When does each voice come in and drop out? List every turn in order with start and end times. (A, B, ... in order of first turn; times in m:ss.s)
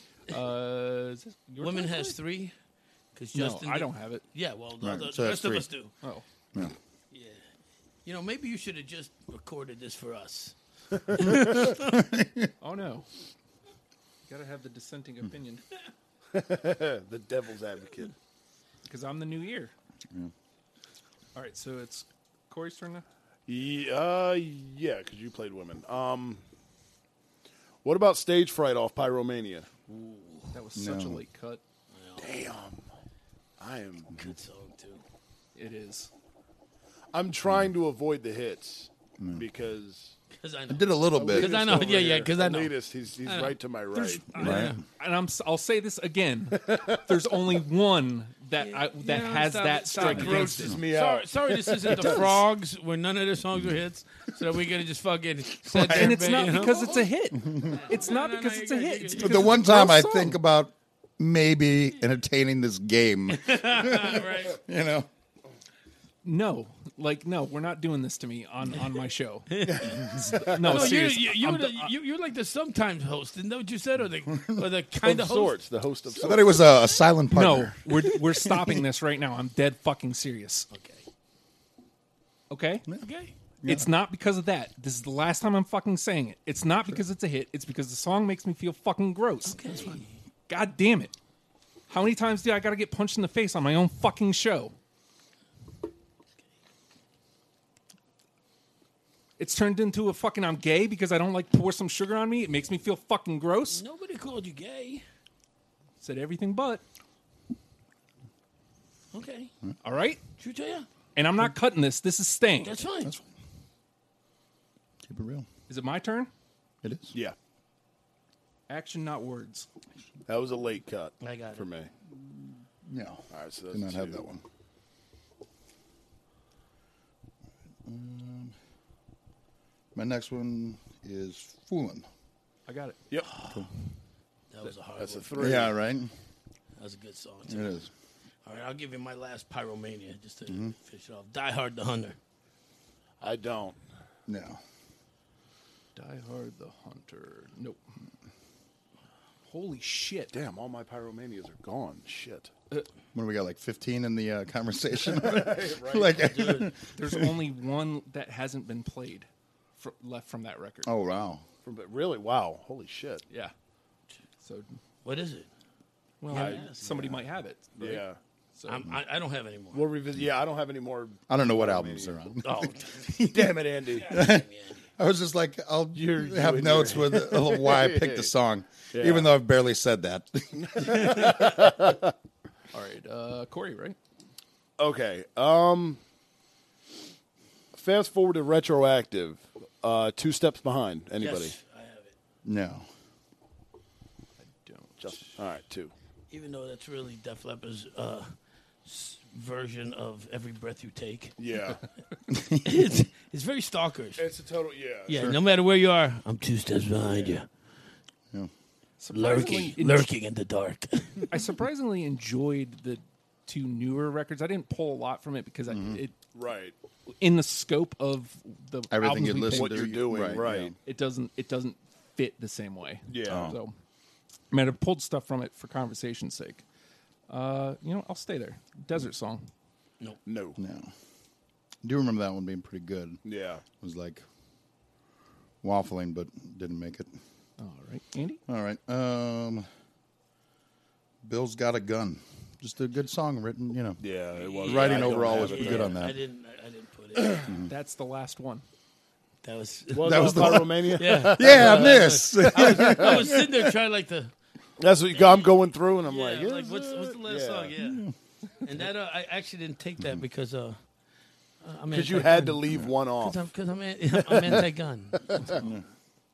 0:00.3-0:02.2 A
0:01.6-0:02.5 B
0:03.1-0:05.9 B
0:03.3-0:04.2 A
0:04.8-0:05.7 C
0:07.1-0:07.4 B
0:08.0-0:12.0 B
0:11.1-0:11.7 D
0:11.3-0:12.5 C
0:12.6-0:13.1 A
0:14.3-0:15.6 A
0:16.3-0:18.1 D
0:18.8-0:19.7 A
0:21.3-0:23.0 A
0:23.5-0:26.4 D
0:27.8-0:29.7 D
0:29.9-0:30.5 B
0:30.5-0:31.6 A
0:30.7-0:31.2 C
0:31.9-0:32.3 B
0:32.2-0:32.9 D
0:33.6-0:34.3 D
0:34.1-0:35.0 B
0:35.5-0:36.1 A
0:37.1-0:40.2 D
0:39.2-0:39.4 C
0:40.3-0:42.7 B
0:40.7-0:41.8 C
0:41.2-0:44.3 D
0:43.2-0:43.6 B
0:43.9-0:50.8 A
0:44.3-0:44.8 B
0:44.3-0:44.8 C
0:46.5-0:47.2 D
0:48.6-0:59.6 B
0:50.0-0:52.4 D
0:52.0-0:52.4 A
0:55.7-1:00.4 A
0:55.7-0:56.2 C
0:57.3-0:57.8 C
0:59.2-1:05.1 C
1:03.3-1:04.6 B
1:06.2-1:09.6 A
1:09.5-1:15.6 B
1:09.6-1:11.0 D
1:10.2-1:11.9 A
1:14.3-1:14.7 C
1:15.0-1:16.7 D
1:16.2-1:18.7 C
1:17.3-1:20.7 A
1:20.7-1:21.0 B
1:22.5-1:22.8 A
1:23.0-1:23.3 B
1:23.6-1:23.9 C
1:23.6-1:31.1 A
1:29.4-1:30.2 B
1:31.9-1:34.7 A
1:39.4-1:43.8 A
1:43.7-1:45.0 B
1:46.0-1:46.8 A
1:49.1-1:49.5 B
1:49.8-1:50.2 A
1:50.4-1:50.9 B
1:51.1-1:52.8 A
1:52.6-1:53.1 B
1:55.0-1:55.5 C
1:55.7-1:56.3 A
1:56.8-1:57.1 C
1:58.7-1:59.7 A
2:00.3-2:01.9 D
2:01.2-2:01.7 B
2:02.8-2:04.4 C
2:03.3-2:04.2 D
2:07.8-2:08.5 C
2:09.9-2:12.1 C
2:12.7-2:13.0 A
2:13.1-2:13.5 D
2:14.5-2:15.6 B
2:15.0-2:15.7 D
2:15.4-2:16.1 C
2:16.8-2:17.8 B
2:17.5-2:17.9 C
2:18.4-2:22.2 B
2:20.5-2:20.7 C
2:23.2-2:23.8 D
2:24.3-2:24.6 C
2:25.9-2:27.8 A
2:29.5-2:30.3 A
2:30.3-2:32.5 D
2:33.1-2:37.4 C
2:35.0-2:36.2 D
2:36.1-2:36.7 B
2:36.9-2:40.9 A
2:40.8-2:41.4 C
2:41.6-2:43.2 D
2:44.4-2:44.8 A
2:45.0-2:45.5 B
2:46.2-2:48.9 A
2:46.2-2:47.2 B
2:46.3-2:46.7 D
2:47.8-2:48.2 D
2:48.6-2:49.9 B
2:49.7-2:52.2 D
2:51.3-3:01.5 C
2:52.4-2:53.2 B
2:53.2-2:54.2 D
2:53.9-2:54.8 B
2:55.9-2:58.3 D
2:58.9-2:59.4 D
3:00.6-3:02.1 D
3:02.7-3:04.0 A
3:04.8-3:06.0 D
3:07.7-3:11.6 D
3:11.2-3:12.1 B
3:12.4-3:12.9 C
3:14.4-3:15.4 A
3:15.0-3:15.9 D
3:16.3-3:18.3 B
3:18.8-3:21.4 B
3:21.4-3:21.8 D
3:22.3-3:22.6 C
3:22.5-3:24.2 B
3:24.2-3:25.4 D
3:25.1-3:27.5 B
3:29.0-3:30.1 A
3:29.1-3:31.3 B
3:31.3-3:36.1 A
3:35.7-3:36.0 C
3:36.3-3:36.7 D
3:37.1-3:39.9 A
3:38.9-3:40.8 C
3:39.5-3:40.7 D
3:40.8-3:43.7 A
3:43.1-3:43.5 D
3:43.3-3:43.6 C
3:44.5-3:46.6 A
3:47.3-3:49.5 A
3:50.2-3:50.6 D
3:50.6-3:50.9 C
3:51.8-3:53.2 C
3:53.2-3:53.6 D
3:53.8-3:54.2 C
3:55.6-3:57.1 C
3:57.6-3:58.4 A
3:58.5-3:59.6 C
4:01.2-4:04.0 C
4:04.0-4:06.0 D
4:04.3-4:07.5 B
4:04.6-4:06.2 C
4:07.2-4:07.5 D
4:07.4-4:07.7 C
4:07.6-4:08.6 A
4:09.4-4:14.3 B
4:09.9-4:13.4 D
4:10.0-4:13.7 C
4:14.8-4:17.7 D
4:15.1-4:15.5 B
4:16.0-4:18.1 B
4:17.8-4:18.1 C
4:18.6-4:20.8 B
4:21.6-4:25.6 B
4:21.9-4:23.4 D
4:24.1-4:24.6 D
4:25.3-4:25.6 D
4:25.6-4:25.8 C